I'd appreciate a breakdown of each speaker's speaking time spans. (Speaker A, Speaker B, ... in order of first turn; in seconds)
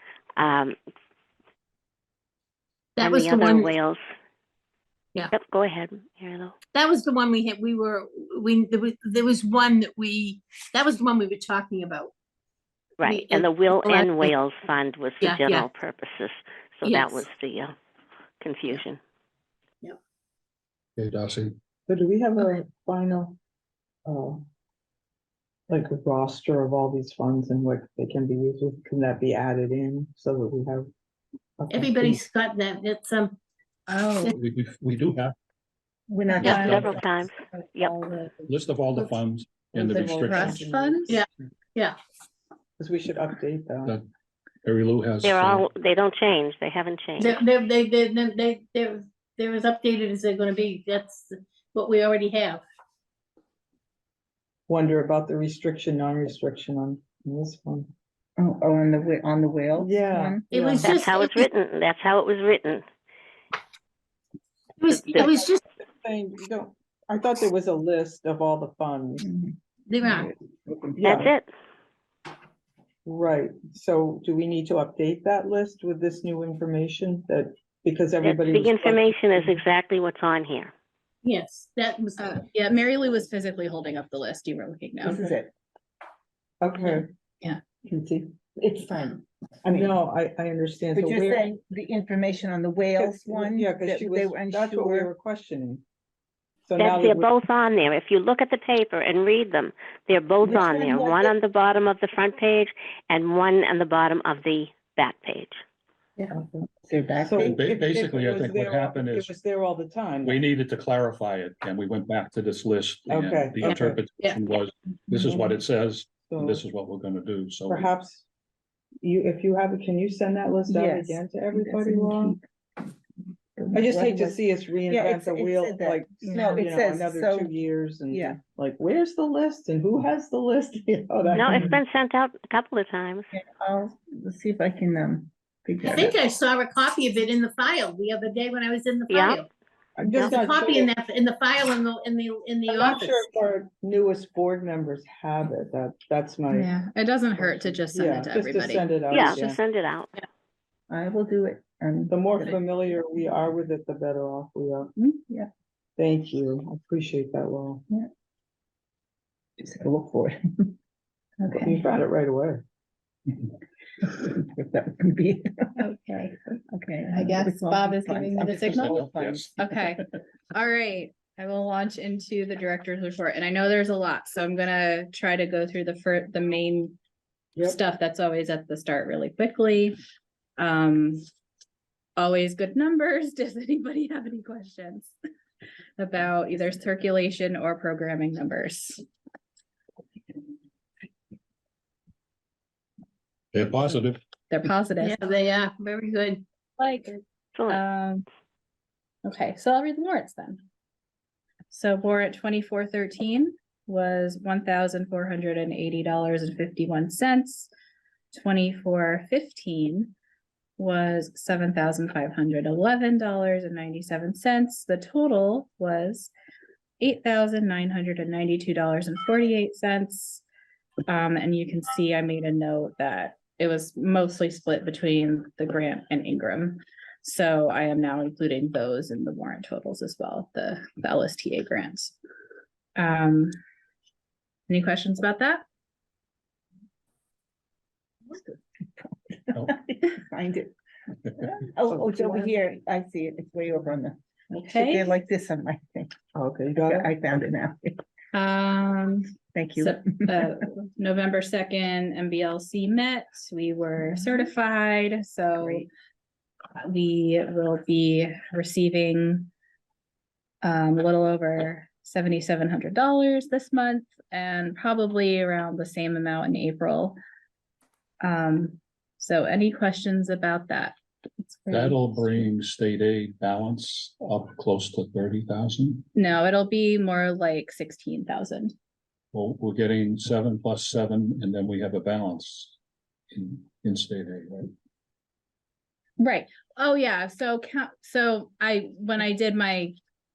Speaker A: 0.4-0.7, 3.0-4.0, 5.3-6.5, 13.0-17.7, 18.4-19.0, 36.4-37.9, 45.2-47.4, 60.8-62.8, 71.0-71.5, 78.2-80.7, 96.8-105.6, 131.3-133.3, 139.1-139.4, 149.1-150.1, 197.5-197.8
Speaker B: 3.0-3.7, 6.7-12.1, 13.0-14.3, 15.2-15.7, 16.8-17.3, 31.7-33.4, 41.1-42.0, 47.2-52.6, 60.5-61.5, 64.8-65.6, 69.9-70.3, 81.2-82.4, 113.7-114.4, 135.8-139.5, 140.1-143.3, 195.0-196.4
Speaker C: 21.0-21.6, 34.3-35.4, 36.4-37.3, 38.5-40.5, 44.6-45.6, 107.4-109.3, 110.2-117.9, 168.5-169.6, 193.5-194.2, 271.7-276.1, 279.3-282.7, 283.3-284.7
Speaker D: 21.9-23.4, 24.1-24.4, 25.7-30.9, 31.6-32.2, 39.7-41.2, 42.8-43.9, 54.7-57.9, 59.8-60.9, 65.1-69.2, 71.0-71.3, 73.0-79.5, 86.6-87.1, 89.7-91.4, 93.0-95.8, 96.6-97.3, 106.3-106.7, 107.2-110.4, 113.1-114.0, 115.1-115.5, 116.2-116.6, 117.7-118.2, 119.0-122.3, 123.7-131.7, 140.0-140.9, 142.7-146.7, 147.4-149.6, 152.1-154.9, 156.0-157.8, 161.6-162.6, 241.9-242.5, 246.3-247.1
Speaker E: 33.9-34.3, 36.4-36.8, 37.4-38.5, 39.9-41.2, 82.2-85.3, 146.5-148.9, 165.8-166.3, 167.1-169.0, 169.6-177.0, 177.6-180.0, 180.6-181.2, 182.2-185.1, 186.0-189.0, 194.5-195.2, 196.8-198.2, 199.2-200.6, 201.7-207.7, 208.3-210.1, 210.8-216.3, 217.0-220.4, 221.1-232.1, 232.9-233.5, 234.7-235.6, 244.5-245.1, 248.3-255.9, 256.8-259.5, 260.6-267.1, 268.2-272.5, 276.1-278.7, 286.2-289.9
Speaker F: 36.1-37.0, 58.4-60.4, 69.2-71.3, 85.0-85.5, 87.8-89.9, 90.9-95.1, 100.4-101.3, 106.8-107.7, 120.7-122.4, 123.5-127.5, 128.1-128.4, 133.3-136.2, 150.9-152.6, 159.6-160.7, 161.4-161.8, 164.0-165.9, 166.7-169.9, 238.3-240.7, 241.3-246.1, 246.8-248.0, 249.5-250.6, 254.0-254.5